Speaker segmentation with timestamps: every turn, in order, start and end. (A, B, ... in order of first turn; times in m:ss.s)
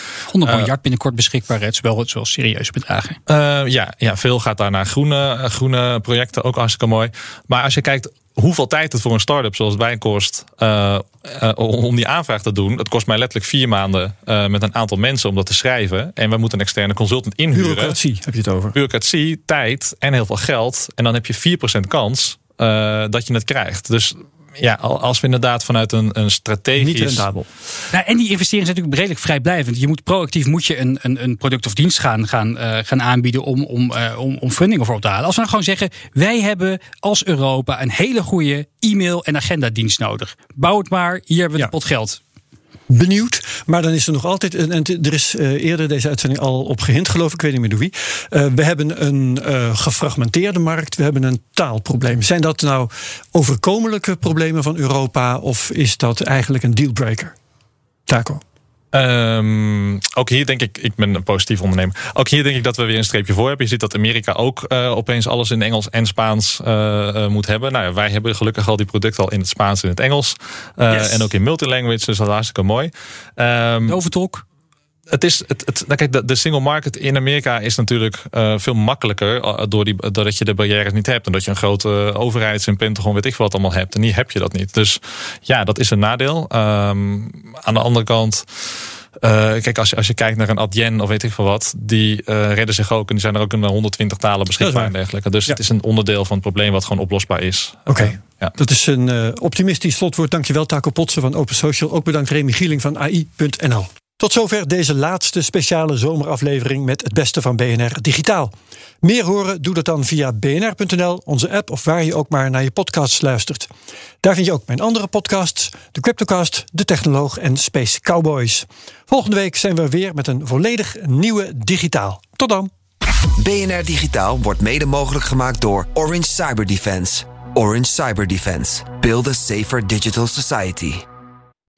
0:00.3-0:03.2 A
0:00.4-0:00.7 B
0:03.3-0:18.0 B
0:17.5-0:18.8 C
0:18.7-0:27.2 B
0:26.8-0:27.5 C
0:27.9-0:42.2 A
0:42.9-0:57.4 C
0:58.1-0:58.4 C
0:58.9-1:14.0 B
1:10.9-1:11.2 A
1:13.8-1:14.4 A
1:15.1-1:28.7 B
1:29.2-1:38.5 B
1:34.6-1:34.9 C
1:37.9-1:53.7 C
1:54.2-2:02.7 C
2:03.4-2:11.0 D